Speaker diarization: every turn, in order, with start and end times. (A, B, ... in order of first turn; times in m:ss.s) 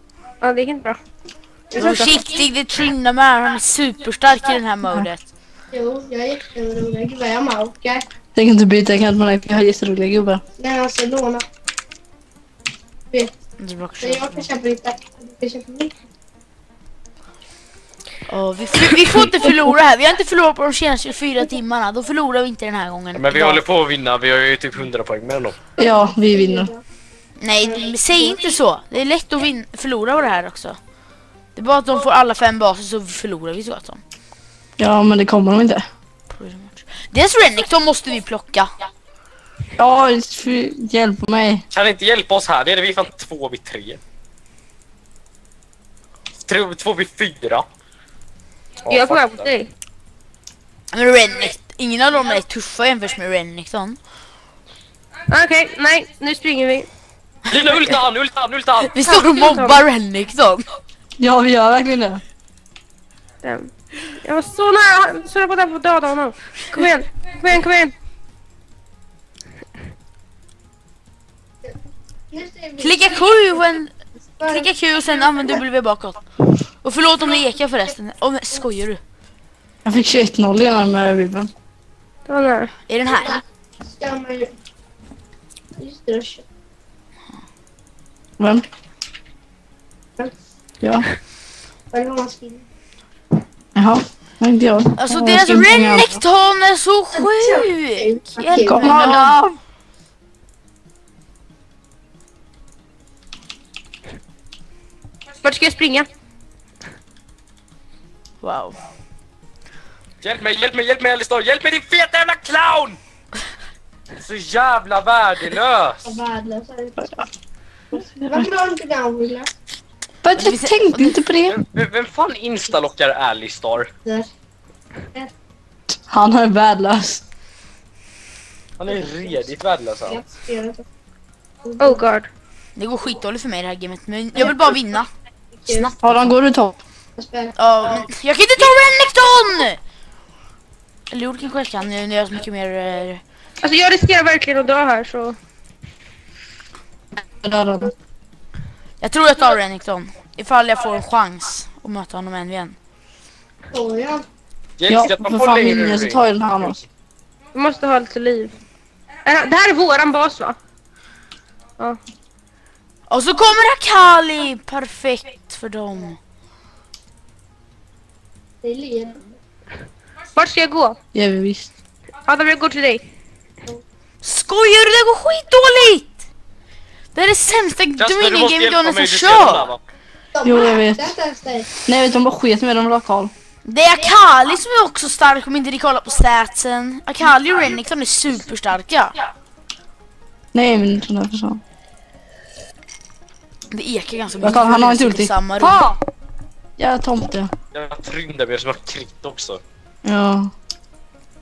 0:00.4-0:01.0 A
0:01.7-0:02.2 B
0:01.8-0:05.3 C
0:05.7-0:08.0 B
0:08.4-0:10.4 D
0:10.6-0:11.4 B
0:13.6-0:14.5 C
0:14.0-0:15.9 B
0:18.3-0:23.6 C
0:23.1-0:25.6 E
0:25.8-0:26.7 D
0:26.2-0:26.8 B
0:27.4-0:30.8 C
0:27.6-0:28.5 B
0:31.6-0:34.0 C
0:34.8-0:35.8 D
0:36.3-0:38.7 C
0:39.8-0:41.6 D
0:41.7-0:44.0 E
0:46.5-0:47.6 E
0:48.8-0:49.5 E
0:48.8-0:49.7 A
0:50.9-0:54.0 C
0:55.3-0:56.9 A
0:57.5-0:59.0 E
0:59.0-1:00.8 C
0:59.0-0:59.8 A
1:01.2-1:02.2 D
1:03.4-1:07.9 A
1:12.3-1:13.3 B
1:12.8-1:14.0 C
1:14.4-1:14.7 B
1:14.5-1:16.2 C
1:16.8-1:19.0 C
1:19.8-1:21.5 D
1:22.3-1:22.7 A
1:22.9-1:23.4 C
1:23.1-1:23.4 B
1:24.0-1:24.5 B
1:25.8-1:26.4 B
1:28.4-1:28.6 D
1:30.8-1:31.1 D
1:31.9-1:32.6 B
1:33.8-1:36.2 D
1:35.0-1:39.4 C
1:37.1-1:39.2 B
1:38.6-1:39.6 D
1:45.4-1:46.1 A
1:48.4-1:48.8 C
1:50.2-1:53.0 E
1:54.2-1:56.0 E
1:56.0-1:57.0 B
1:58.0-1:58.4 D
1:58.3-1:59.5 B
2:00.2-2:01.6 D
2:00.4-2:01.4 C
2:01.5-2:03.9 E
2:06.1-2:07.2 D
2:08.8-2:10.2 E
2:10.1-2:10.8 B
2:11.6-2:12.0 B
2:11.8-2:12.3 A
2:12.8-2:15.1 C
2:15.6-2:15.9 B
2:15.7-2:16.3 C
2:16.0-2:16.8 D
2:17.2-2:17.6 B
2:17.6-2:19.8 C
2:21.1-2:23.2 C
2:23.6-2:25.4 A
2:27.2-2:27.9 D
2:29.0-2:32.8 C
2:33.7-2:34.2 B
2:34.8-2:36.2 E
2:34.9-2:36.8 D
2:37.5-2:38.5 A
2:39.2-2:40.6 A
2:43.1-2:46.2 C
2:48.6-2:49.3 B
2:50.4-2:51.0 A
2:51.1-2:51.7 D
2:52.2-2:53.0 A
2:54.2-2:56.2 C
2:57.1-2:59.7 C
2:58.0-2:59.8 E
3:00.4-3:01.7 B
3:00.4-3:01.1 D
3:01.8-3:03.3 D
3:03.6-3:09.2 C
3:10.5-3:11.6 D
3:13.7-3:15.9 C
3:14.4-3:16.0 D
3:16.8-3:17.5 D
3:17.7-3:19.6 E
3:20.0-3:20.5 D